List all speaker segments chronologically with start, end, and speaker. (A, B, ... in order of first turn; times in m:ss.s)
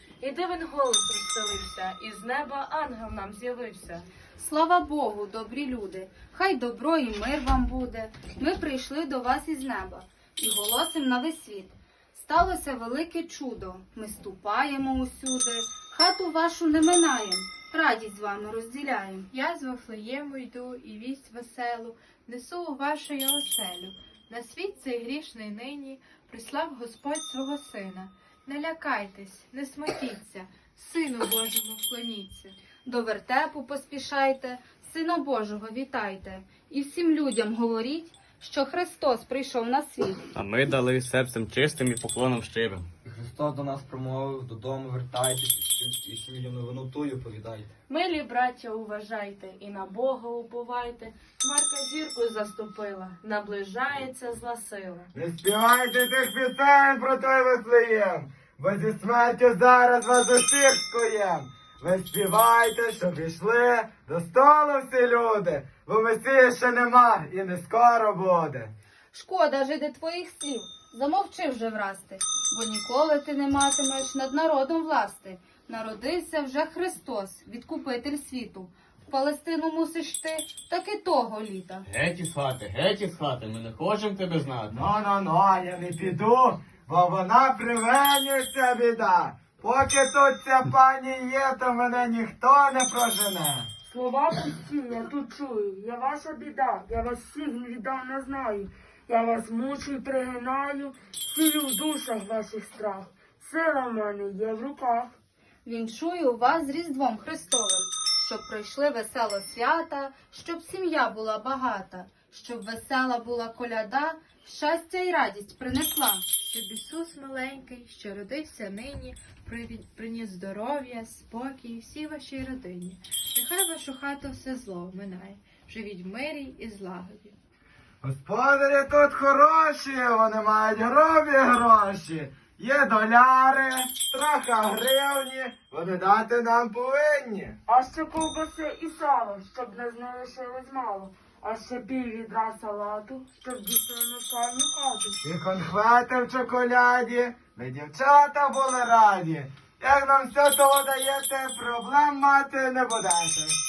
0:04.4-0:19.3 A
0:19.3-0:32.6 B
0:32.8-0:40.2 A
0:40.3-0:42.8 C
0:43.0-0:47.7 D
0:47.9-0:53.1 E
0:55.1-1:08.7 F
1:09.1-1:21.9 A
1:21.9-1:24.7 C
1:24.7-1:33.7 F
1:33.9-1:45.1 G
1:45.6-1:56.2 A
1:56.5-2:07.3 B
2:08.0-2:17.6 F
2:17.7-2:25.2 G
2:25.2-2:33.6 F